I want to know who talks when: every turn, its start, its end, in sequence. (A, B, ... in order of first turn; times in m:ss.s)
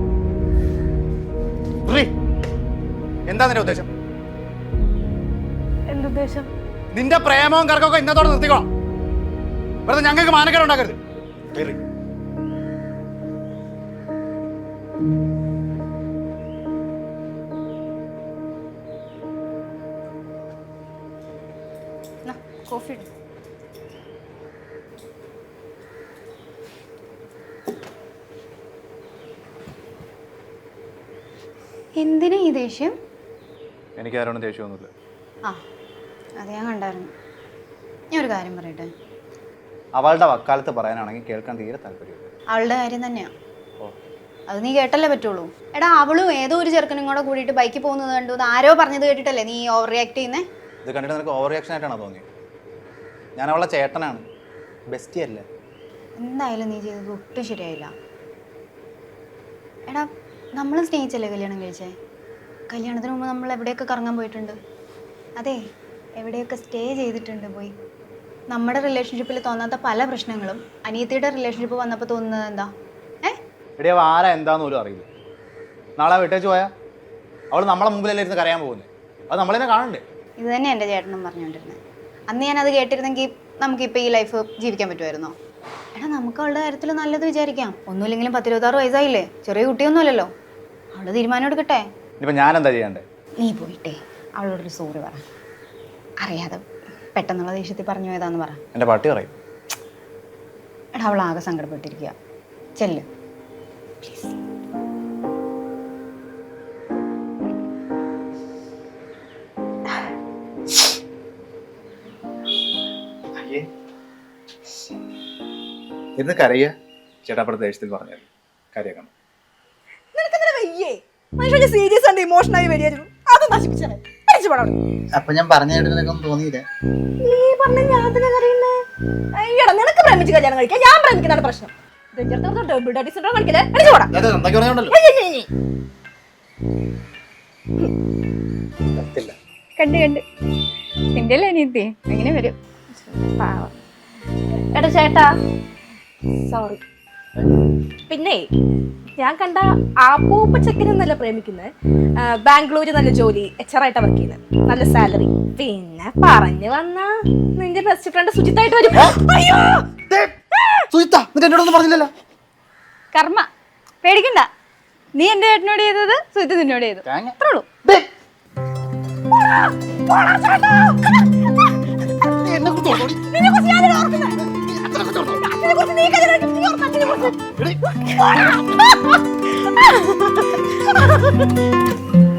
0:01.8-0:02.1 A
0:03.3-0:03.9 A
0:05.9-0:06.4 B
0:06.9-0:08.7 A
0:09.8-0:11.0 A
0:11.5-0:11.8 A
0:22.2-0:23.1 B
0:32.0-0:32.9 B
0:34.0-0:34.9 A
0:36.4-0:37.1 B
0:38.1-0:38.9 B
0:40.0-0:42.3 A
0:42.5-0:43.3 B
0:43.8-0:44.1 A
0:44.5-0:50.4 B
0:50.8-0:52.2 A
0:53.4-0:54.2 A
0:54.9-0:55.4 A
0:56.2-0:57.9 B
0:59.9-1:01.9 B
1:02.7-1:04.6 B
1:06.2-1:07.7 B
1:08.5-1:12.7 B
1:13.8-1:15.1 A
1:16.0-1:16.7 A
1:17.5-1:20.0 A
1:20.4-1:21.8 B
1:22.3-1:25.3 B
1:26.0-1:30.3 B
1:30.9-1:31.8 B
1:32.2-1:33.0 A
1:33.4-1:35.2 B
1:36.2-1:36.6 B
1:37.2-1:38.6 B
1:38.7-1:39.3 A
1:40.9-1:42.1 B
1:42.8-1:43.0 B
1:44.0-1:44.3 B
1:53.4-1:53.6 A
1:56.2-1:56.7 A
1:57.2-1:59.1 A
2:00.1-2:04.8 C
2:05.1-2:06.6 A
2:07.2-2:08.7 C
2:09.3-2:14.1 C
2:14.1-2:14.9 A
2:14.9-2:15.5 C
2:18.9-2:19.4 A
2:19.8-2:20.2 B
2:21.1-2:22.6 B
2:22.9-2:23.7 C
2:24.7-2:25.3 C
2:26.4-2:26.8 C
2:28.1-2:28.5 C
2:29.2-2:39.9 C
2:40.1-2:40.3 A
2:40.6-2:40.8 C
2:40.9-2:42.1 A
2:43.1-2:43.5 B
2:44.0-2:44.5 B
2:45.2-2:47.7 B
2:47.1-2:48.0 A
2:49.4-2:51.7 C
2:52.2-2:53.2 A
2:52.7-2:54.5 C
2:54.4-2:55.4 A
2:55.1-3:01.5 C